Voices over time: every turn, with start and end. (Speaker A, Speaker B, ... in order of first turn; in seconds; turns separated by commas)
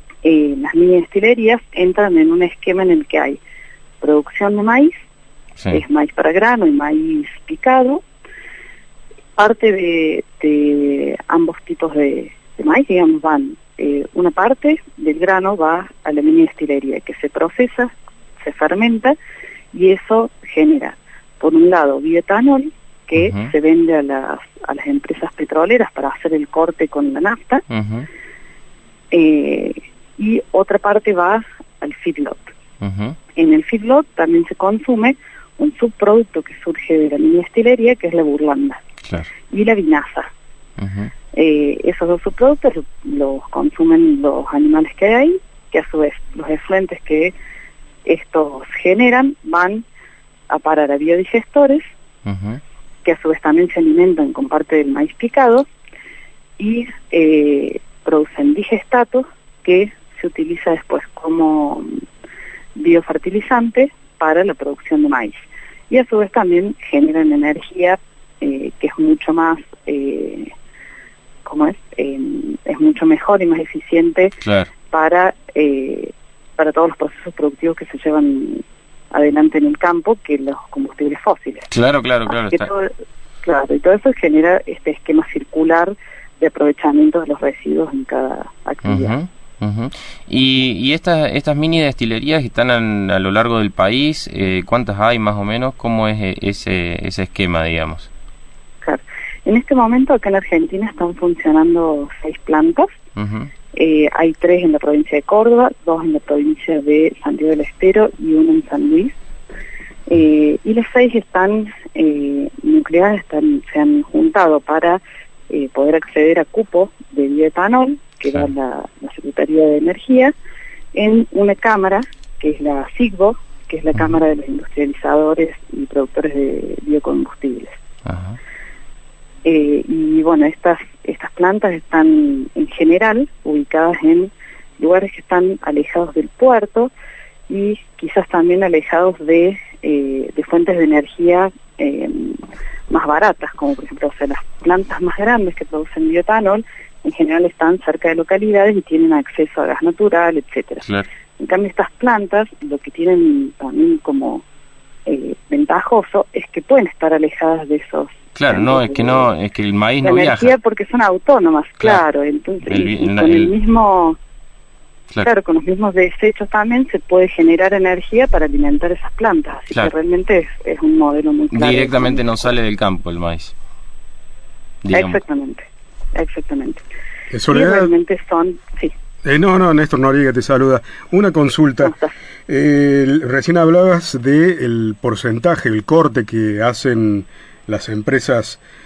Speaker A: 0.2-3.4, Speaker A: 4.0-4.9, Speaker A: 5.7-8.0, Speaker A: 9.4-19.1, Speaker A: 19.7-27.6, Speaker B: 23.1-23.5, Speaker B: 27.7-28.1, Speaker A: 29.1-32.4, Speaker B: 32.8-33.2, Speaker A: 33.3-38.8, Speaker B: 39.0-39.3, Speaker A: 39.5-40.3, Speaker B: 40.8-41.1, Speaker A: 41.3-47.3, Speaker A: 48.0-49.8, Speaker A: 50.5-51.9, Speaker B: 52.2-52.6, Speaker A: 53.0-55.7, Speaker A: 56.6-61.9, Speaker A: 62.8-70.5, Speaker A: 71.4-74.3, Speaker B: 74.4-74.7, Speaker A: 74.9-81.7, Speaker B: 81.7-82.7, Speaker A: 82.3-82.9, Speaker A: 83.4-89.1, Speaker B: 88.8-98.1, Speaker A: 98.8-102.9, Speaker B: 103.2-103.5, Speaker A: 103.7-109.1, Speaker A: 110.1-120.3, Speaker A: 120.9-127.8, Speaker B: 128.0-128.4, Speaker A: 129.4-136.9, Speaker A: 137.5-150.8, Speaker A: 151.4-154.4, Speaker A: 155.1-159.3, Speaker B: 158.3-160.5, Speaker A: 160.0-164.2, Speaker B: 162.7-163.5, Speaker A: 165.2-172.5, Speaker B: 171.5-173.5, Speaker B: 174.8-175.2, Speaker A: 174.9-176.8, Speaker C: 177.3-177.9, Speaker A: 177.5-178.9, Speaker C: 179.2-181.9, Speaker A: 181.8-182.1, Speaker C: 182.5-188.6